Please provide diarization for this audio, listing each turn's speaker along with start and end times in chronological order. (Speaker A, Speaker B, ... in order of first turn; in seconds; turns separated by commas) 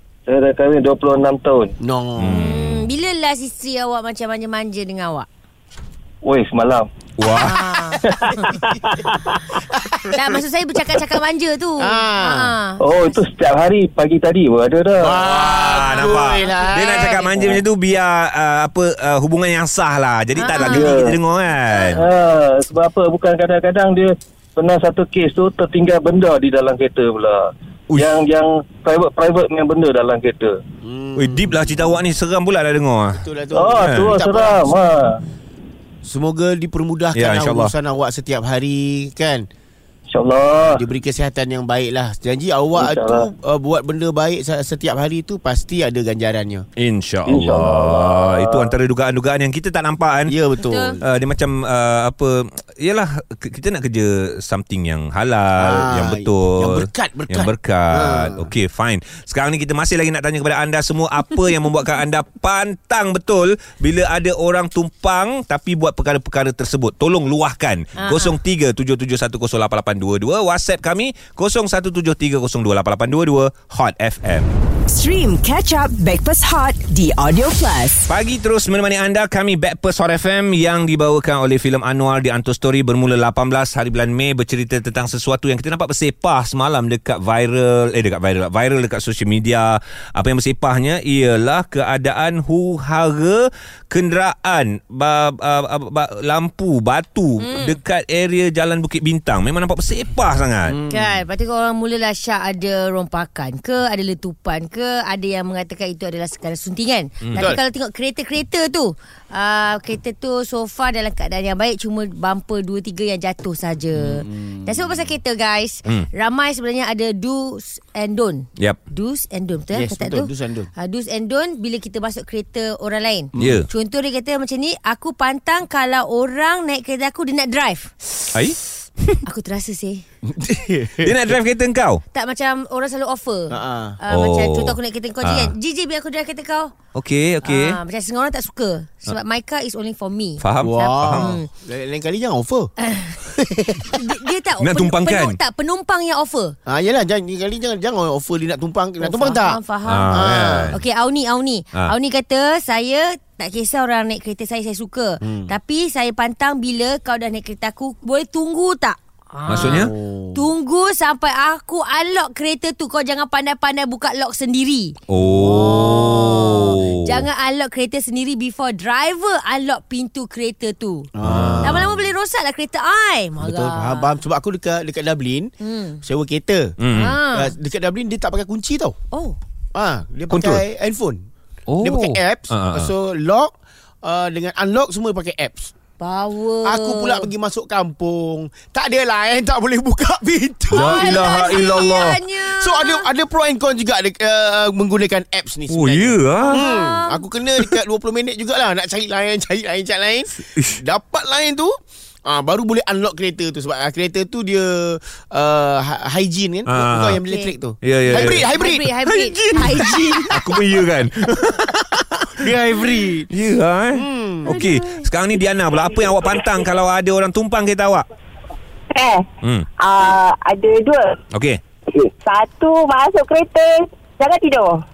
Speaker A: 0.3-1.7, Speaker B: 1.8-2.5, Speaker C: 2.2-2.9, Speaker D: 2.3-5.3, Speaker A: 6.2-6.9, Speaker C: 7.2-8.0, Speaker D: 7.3-8.5, Speaker A: 8.2-9.4, Speaker B: 9.7-10.1, Speaker D: 10.0-13.2, Speaker B: 11.8-12.5, Speaker A: 12.8-15.2, Speaker B: 15.0-17.1, Speaker C: 15.2-22.0, Speaker D: 15.7-17.6, Speaker D: 20.4-20.9, Speaker A: 20.5-21.1, Speaker A: 21.9-30.6, Speaker B: 30.8-31.8, Speaker C: 31.2-33.2, Speaker B: 33.1-34.7, Speaker A: 33.5-35.2, Speaker C: 33.8-34.1, Speaker B: 36.0-39.5, Speaker C: 37.1-37.7, Speaker A: 40.1-40.8, Speaker B: 40.6-46.6, Speaker A: 42.7-43.2, Speaker C: 46.8-50.3, Speaker A: 47.3-48.7, Speaker B: 50.3-51.0, Speaker D: 50.6-51.0, Speaker C: 51.0-74.5, Speaker B: 55.6-58.5, Speaker D: 68.0-68.3, Speaker E: 74.9-78.0, Speaker C: 78.1-100.8, Speaker D: 97.4-97.8, Speaker B: 100.7-101.2, Speaker D: 100.9-128.3, Speaker B: 107.3-107.6, Speaker B: 113.9-114.8, Speaker B: 119.7-120.7, Speaker B: 123.3-123.6, Speaker C: 123.4-123.7, Speaker C: 128.3-129.2, Speaker D: 129.2-130.0, Speaker B: 130.2-131.2, Speaker C: 131.0-132.0, Speaker D: 132.1-136.7, Speaker B: 133.5-134.0, Speaker C: 134.1-135.5, Speaker C: 136.9-137.8, Speaker D: 137.4-141.5, Speaker C: 140.4-141.3, Speaker B: 140.6-142.7, Speaker D: 142.9-143.2, Speaker B: 143.2-144.0, Speaker D: 143.8-146.6, Speaker C: 144.6-145.4, Speaker B: 146.7-149.6, Speaker D: 149.0-171.1, Speaker C: 149.8-150.8, Speaker B: 150.1-150.7, Speaker B: 155.2-155.5, Speaker C: 159.5-159.9, Speaker B: 159.6-160.5, Speaker C: 165.1-167.2, Speaker B: 165.2-166.6, Speaker B: 171.1-171.9, Speaker C: 171.2-171.9, Speaker D: 171.6-174.2, Speaker B: 173.4-175.5, Speaker D: 175.6-176.0, Speaker B: 176.0-178.9, Speaker C: 176.8-177.2, Speaker D: 176.9-177.5, Speaker D: 179.1-179.4, Speaker B: 179.7-181.2, Speaker C: 180.3-180.6, Speaker C: 181.7-182.9, Speaker B: 181.8-185.7, Speaker D: 186.0-187.3, Speaker B: 186.6-201.7, Speaker D: 190.7-193.1, Speaker C: 190.7-192.2, Speaker C: 195.7-196.6, Speaker D: 196.4-197.2, Speaker B: 202.2-208.9, Speaker C: 206.7-207.2, Speaker D: 207.3-207.5, Speaker C: 207.8-208.5, Speaker D: 208.1-210.4, Speaker C: 209.1-212.4, Speaker B: 212.3-213.3, Speaker C: 213.3-218.0, Speaker B: 213.9-214.6, Speaker D: 214.5-215.1, Speaker C: 219.4-219.7, Speaker F: 219.9-221.0, Speaker C: 221.3-221.6, Speaker F: 222.3-223.6, Speaker F: 224.2-224.7